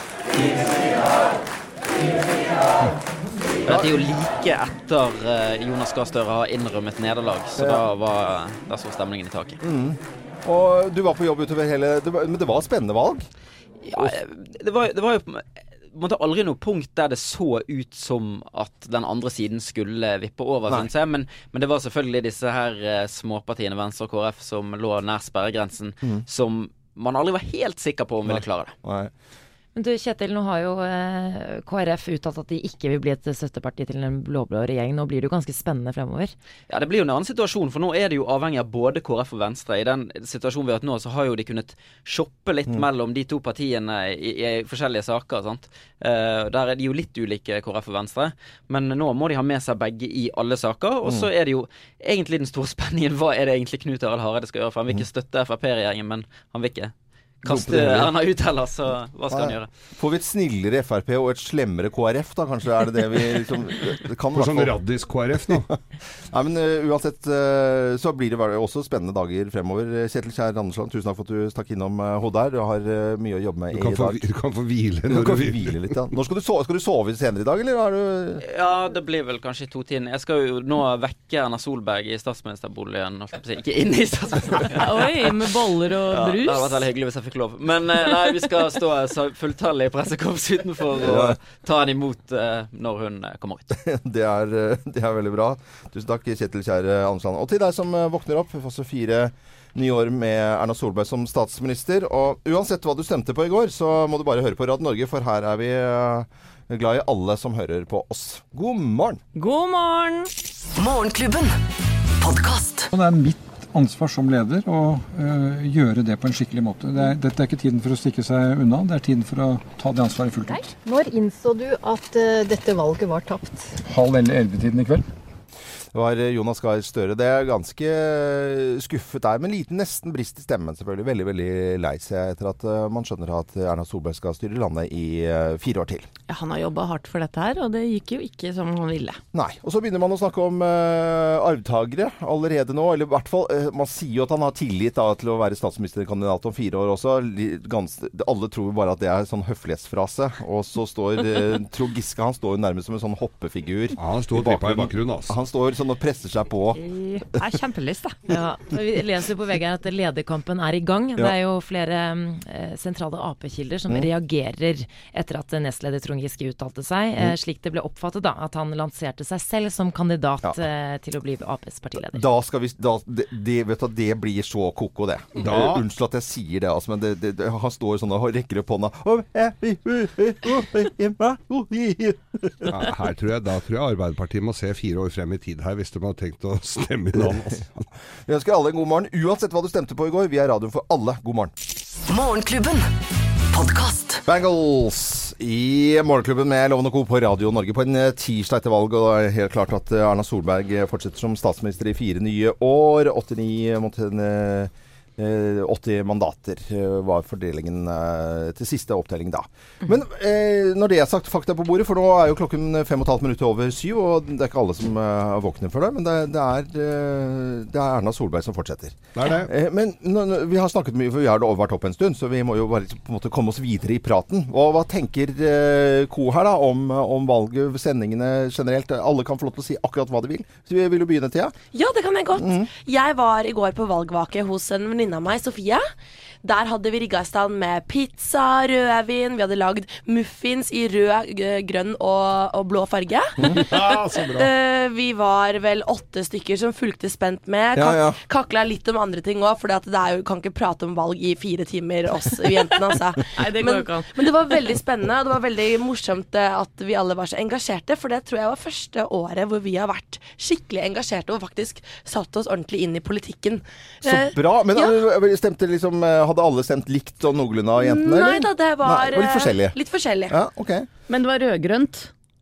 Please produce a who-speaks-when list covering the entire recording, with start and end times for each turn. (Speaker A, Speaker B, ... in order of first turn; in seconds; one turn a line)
Speaker A: 3.7-9.6
Speaker B: 3.7-4.0
Speaker B: 7.6-7.9
Speaker B: 9.6-13.3
Speaker A: 13.9-28.7
Speaker B: 13.9-14.2
Speaker B: 28.2-29.1
Speaker C: 29.8-36.3
Speaker A: 36.7-59.7
Speaker B: 57.4-58.1
Speaker B: 59.3-64.8
Speaker D: 64.3-65.7
Speaker B: 65.5-74.2
Speaker D: 73.7-76.0
Speaker B: 75.1-78.4
Speaker A: 78.4-85.4
Speaker E: 84.8-86.8
Speaker A: 86.1-93.8
Speaker B: 91.0-91.4
Speaker B: 93.7-109.2
Speaker E: 109.4-110.3
Speaker F: 110.8-111.6
Speaker F: 112.2-112.9
Speaker G: 112.9-120.7
Speaker H: 120.5-123.7
Speaker G: 123.8-125.0
Speaker B: 125.9-136.1
Speaker E: 136.3-139.2
Speaker B: 139.3-156.8
Speaker D: 154.0-155.3
Speaker E: 156.8-158.2
Speaker C: 158.3-172.2
Speaker B: 172.1-182.9
Speaker D: 175.4-175.8
Speaker D: 182.7-187.8
Speaker B: 187.2-187.4
Speaker B: 188.3-191.5
Speaker F: 192.1-192.9
Speaker F: 193.5-194.2
Speaker B: 194.3-231.6
Speaker D: 219.2-219.5
Speaker I: 231.7-235.8
Speaker B: 232.4-232.7
Speaker I: 236.4-265.0
Speaker D: 243.5-244.5
Speaker B: 247.8-248.2
Speaker E: 253.4-254.5
Speaker B: 264.1-269.8
Speaker I: 267.8-270.4
Speaker B: 270.3-270.9
Speaker E: 271.1-272.1